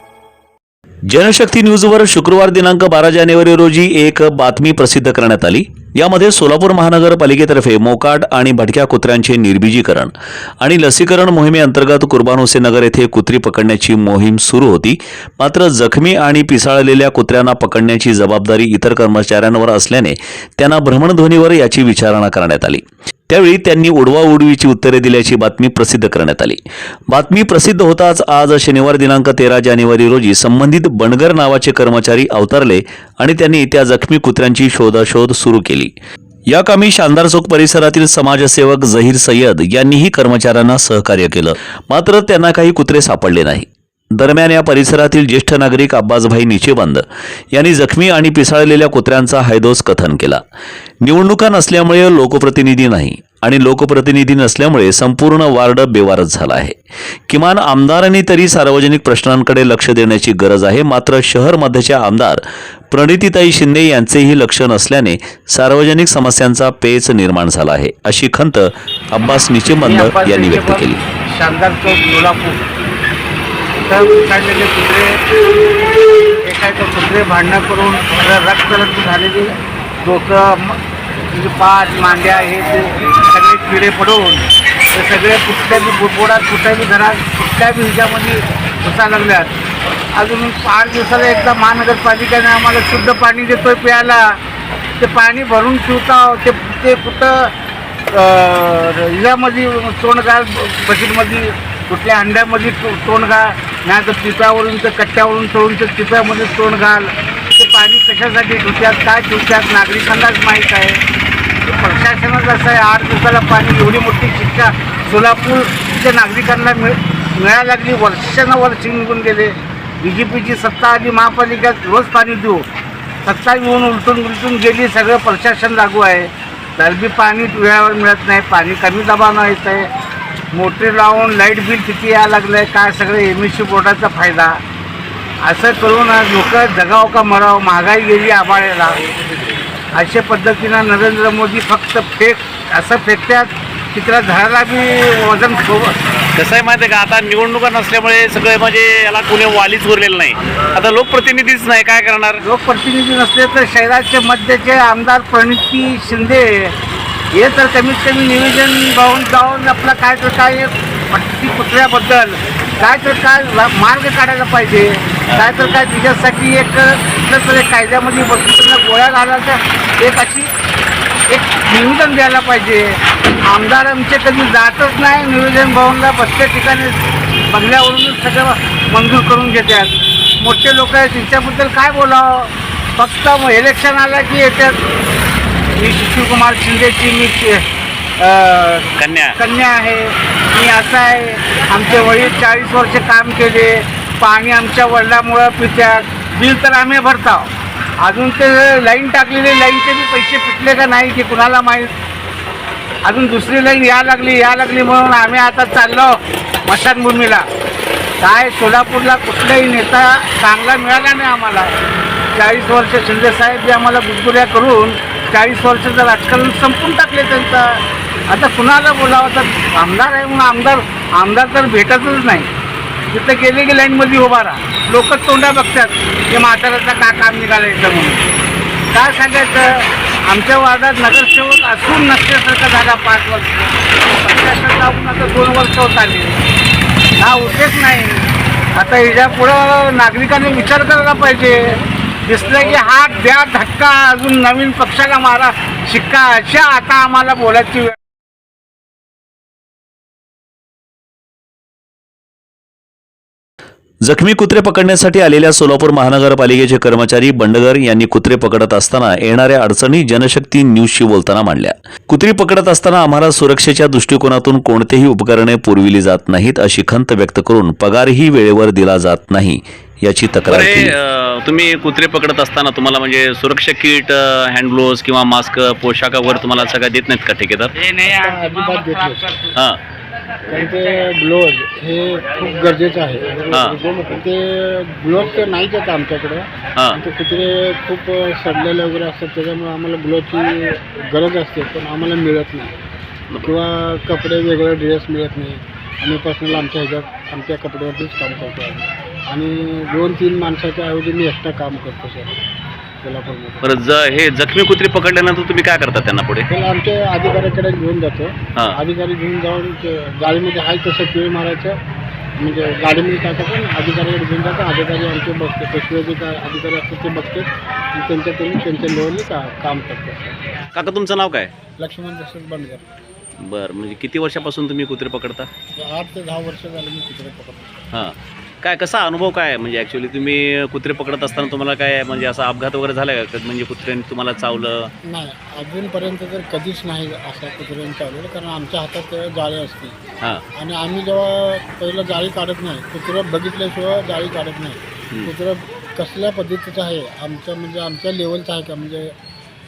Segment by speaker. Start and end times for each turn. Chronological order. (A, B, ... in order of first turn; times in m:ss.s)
0:01.0-0:35.9 A
0:36.5-0:50.4 A
0:51.0-0:56.8 A
0:57.3-1:11.0 A
1:09.8-1:12.6 B
1:13.8-1:15.2 B
1:15.8-1:20.8 B
1:21.3-1:29.5 B
1:30.1-1:34.4 B
1:35.0-1:37.5 B
1:38.1-1:51.0 B
1:51.6-2:02.7 B
2:03.2-2:09.9 B
2:10.5-2:14.6 B
2:15.4-2:19.0 B
2:19.9-2:26.0 B
2:26.3-2:32.4 C
2:32.4-2:36.7 B
2:37.3-2:50.5 B
2:51.3-3:04.8 B
3:05.7-3:07.6 B
3:08.2-3:21.9 B
3:09.0-3:09.4 C
3:23.0-3:27.4 B
3:28.2-3:31.7 B
3:32.3-3:42.5 B
3:43.1-3:48.3 B
3:48.9-3:56.4 B
3:57.2-4:08.0 B
4:14.0-4:30.9 A
4:30.4-4:37.7 C
4:37.8-4:39.5 B
4:38.2-4:39.4 D
4:40.5-4:52.8 D
4:43.5-4:43.8 C
4:53.4-5:02.4 D
5:03.0-5:03.8 D
5:03.6-5:06.5 C
5:06.5-5:11.7 D
5:12.4-5:20.4 D
5:20.7-5:21.5 C
5:21.8-5:22.9 D
5:23.4-5:25.5 C
5:25.7-5:27.8 D
5:27.9-5:34.9 C
5:35.0-5:40.0 D
5:40.5-5:49.1 D